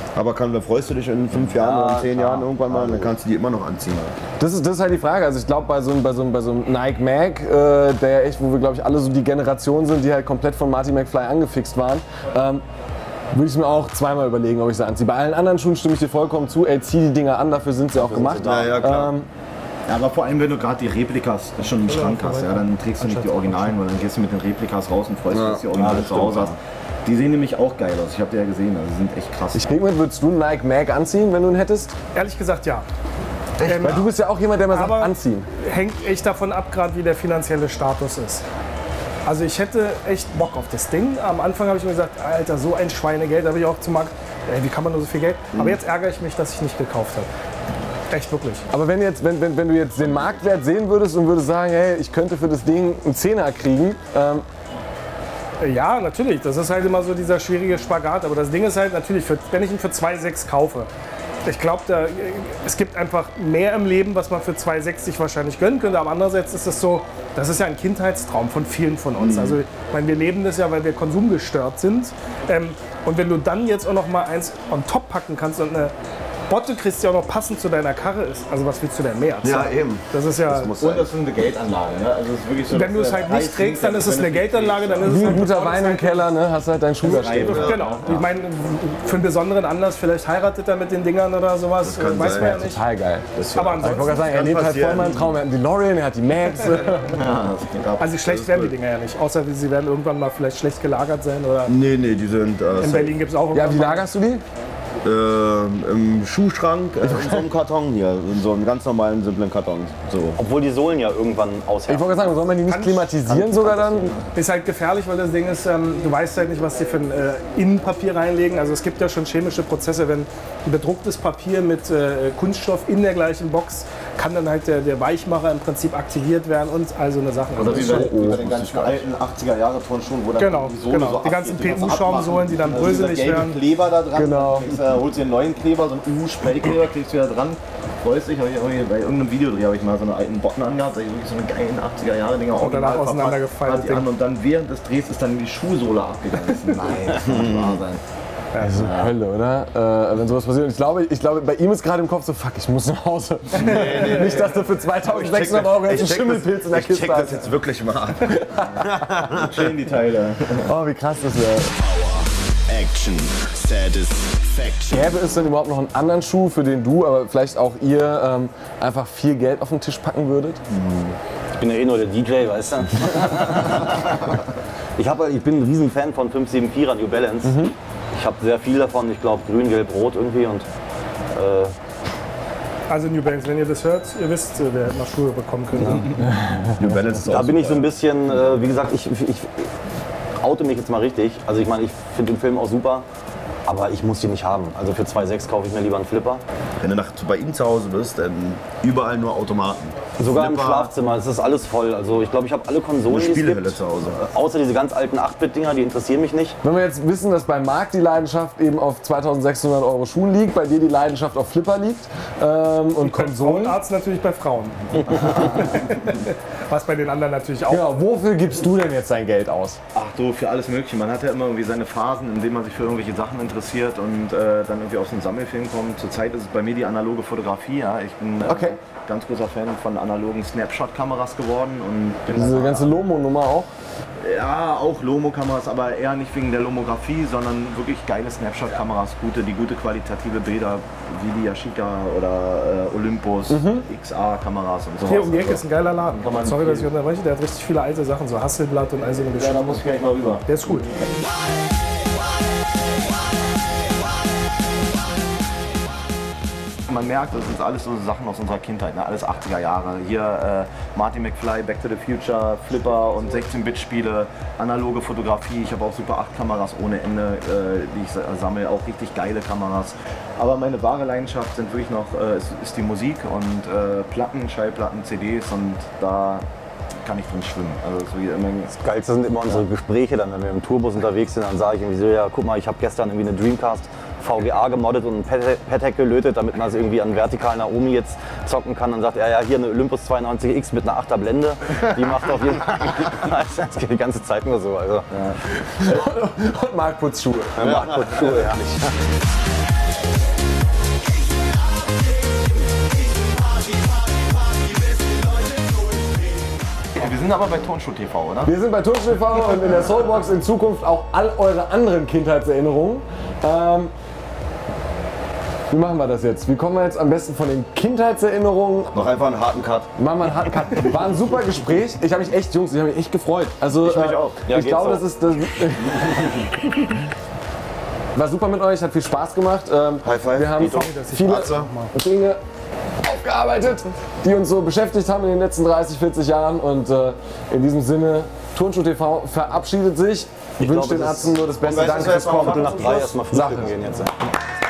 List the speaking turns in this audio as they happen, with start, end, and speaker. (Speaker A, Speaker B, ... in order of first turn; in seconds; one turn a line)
Speaker A: 0.1-4.2
Speaker B: 1.3-3.1
Speaker C: 4.4-12.6
Speaker C: 13.3-19.3
Speaker B: 17.9-19.1
Speaker A: 18.4-19.1
Speaker D: 19.9-29.7
Speaker E: 21.8-23.8
Speaker A: 25.3-25.7
Speaker B: 25.7-26.6
Speaker C: 29.5-31.9
Speaker E: 32.1-32.9
Speaker E: 33.6-34.0
Speaker C: 33.8-35.5
Speaker E: 34.7-38.4
Speaker E: 39.2-47.3
Speaker E: 48.1-48.6
Speaker C: 48.7-54.4
Speaker E: 55.6-60.9
Speaker E: 61.5-75.9
Speaker A: 69.2-69.6
Speaker E: 76.5-80.7
Speaker A: 79.4-81.1
Speaker D: 80.8-85.5
Speaker E: 82.7-86.3
Speaker C: 85.0-87.8
Speaker D: 87.0-88.2
Speaker E: 87.0-92.8
Speaker A: 87.4-88.2
Speaker A: 91.8-92.7
Speaker C: 92.6-93.3
Speaker A: 93.3-95.3
Speaker E: 93.5-95.0
Speaker C: 93.8-97.1
Speaker D: 97.0-98.1
Speaker E: 98.0-101.8
Speaker A: 98.2-98.7
Speaker A: 101.6-103.2
Speaker E: 102.8-104.1
Speaker C: 103.5-104.4
Speaker A: 105.0-110.4
Speaker B: 110.4-112.5
Speaker C: 111.9-114.1
Speaker E: 112.6-113.2
Speaker B: 113.2-114.2
Speaker E: 114.2-128.1
Speaker D: 127.5-148.0
Speaker C: 127.6-128.5
Speaker A: 128.1-129.0
Speaker E: 130.3-133.6
Speaker C: 134.1-134.8
Speaker E: 142.5-144.1
Speaker A: 147.1-147.8
Speaker E: 148.5-148.9
Speaker C: 148.6-157.4
Speaker D: 148.7-149.1
Speaker A: 153.5-154.5
Speaker A: 155.1-159.7
Speaker C: 158.3-159.2
Speaker D: 159.3-160.7
Speaker C: 160.6-161.7
Speaker A: 161.8-165.2
Speaker C: 164.9-170.6
Speaker A: 170.7-171.1
Speaker B: 171.6-174.3
Speaker B: 174.9-177.6
Speaker C: 177.4-177.7
Speaker B: 178.1-180.7
Speaker B: 181.3-181.7
Speaker E: 182.9-186.3
Speaker A: 186.7-187.9
Speaker B: 187.3-189.7
Speaker B: 190.4-193.1
Speaker B: 193.7-196.4
Speaker A: 196.8-200.9
Speaker B: 200.2-206.6
Speaker A: 203.1-204.2
Speaker C: 206.6-213.8
Speaker E: 213.0-218.0
Speaker C: 217.7-219.8
Speaker D: 219.9-233.0
Speaker C: 228.4-228.8
Speaker C: 232.3-233.7
Speaker D: 234.2-245.6
Speaker C: 243.5-243.8
Speaker E: 245.0-250.9
Speaker D: 246.2-246.9
Speaker D: 249.3-250.4
Speaker D: 256.9-276.4
Speaker D: 277.0-278.7
Speaker B: 278.7-295.1
Speaker C: 295.6-297.8
Speaker B: 297.6-298.9
Speaker A: 297.8-298.6
Speaker D: 306.9-308.5
Speaker C: 308.4-313.9
Speaker C: 315.7-319.1
Speaker A: 318.9-319.9
Speaker C: 319.9-326.5
Speaker A: 323.8-324.4
Speaker B: 324.4-325.0
Speaker C: 328.1-332.4
Speaker A: 330.0-330.6
Speaker B: 330.6-330.9
Speaker E: 330.6-331.9
Speaker A: 331.3-331.7
Speaker C: 333.0-343.7
Speaker B: 340.6-344.3
Speaker A: 341.6-343.1